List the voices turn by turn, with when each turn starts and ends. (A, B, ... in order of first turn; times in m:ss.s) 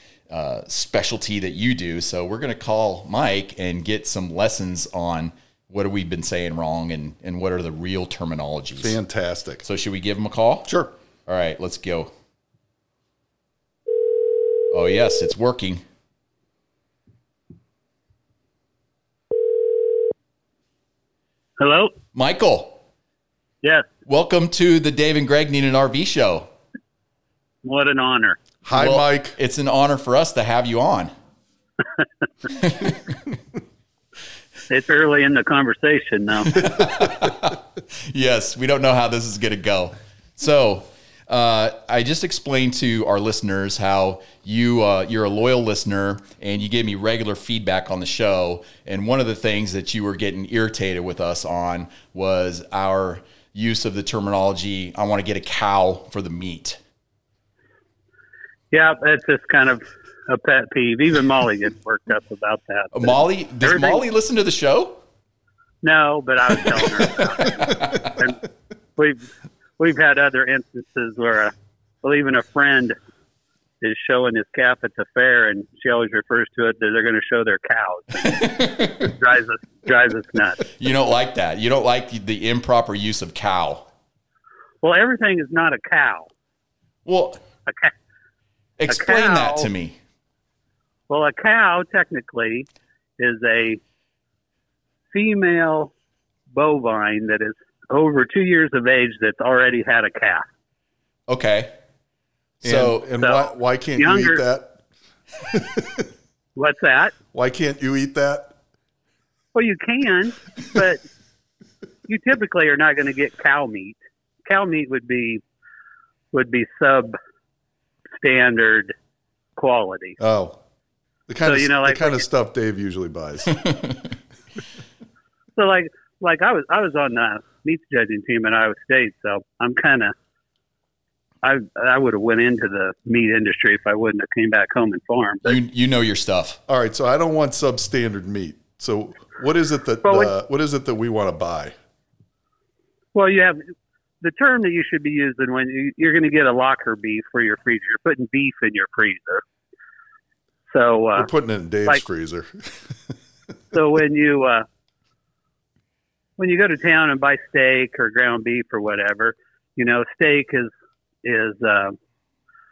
0:00.3-0:09.0 A
0:08.8-0:09.6 B
0:09.6-0:10.7 A
0:10.6-0:10.9 B
0:11.3-0:12.1 A
0:14.7-0:15.8 A
0:21.6-0:21.9 C
0:22.1-0:22.8 A
0:24.0-0:26.5 A
0:27.6-0:28.4 C
0:28.6-0:29.4 B
0:28.7-0:31.1 A
0:32.5-0:33.0 A
0:34.7-0:36.7 C
0:36.5-0:56.8 A
0:58.7-1:04.0 C
1:02.9-1:05.0 A
1:05.8-1:08.4 C
1:07.6-1:08.1 A
1:09.0-1:09.2 C
1:09.8-1:13.0 C
1:13.8-1:20.6 C
1:18.2-1:19.1 A
1:20.8-1:23.9 A
1:24.8-1:26.3 C
1:27.0-1:27.4 A
1:27.7-1:27.9 C
1:28.8-1:30.0 A
1:28.9-1:29.7 C
1:31.1-1:32.7 C
1:33.2-1:33.8 C
1:35.1-1:35.9 C
1:36.5-1:40.5 C
1:41.3-1:41.7 A
1:42.6-1:44.8 B
1:42.6-1:43.1 A
1:43.2-1:44.4 C
1:45.4-1:46.0 B
1:46.6-1:47.1 C
1:47.3-1:48.5 B
1:49.5-1:51.0 C
1:52.1-1:55.4 C
1:56.3-1:57.2 C
1:58.2-1:58.9 C
1:59.6-2:00.2 C
2:00.2-2:00.6 B
2:01.3-2:03.6 B
2:01.4-2:02.2 C
2:03.7-2:04.0 A
2:05.6-2:10.1 C
2:11.4-2:15.6 C
2:15.4-2:16.6 A
2:16.7-2:21.7 B
2:20.0-2:20.3 C
2:23.1-2:23.6 C
2:24.2-2:29.4 C
2:30.7-2:31.3 C
2:31.2-2:32.5 B
2:33.7-2:34.6 C
2:36.4-2:40.7 C
2:41.2-2:42.0 C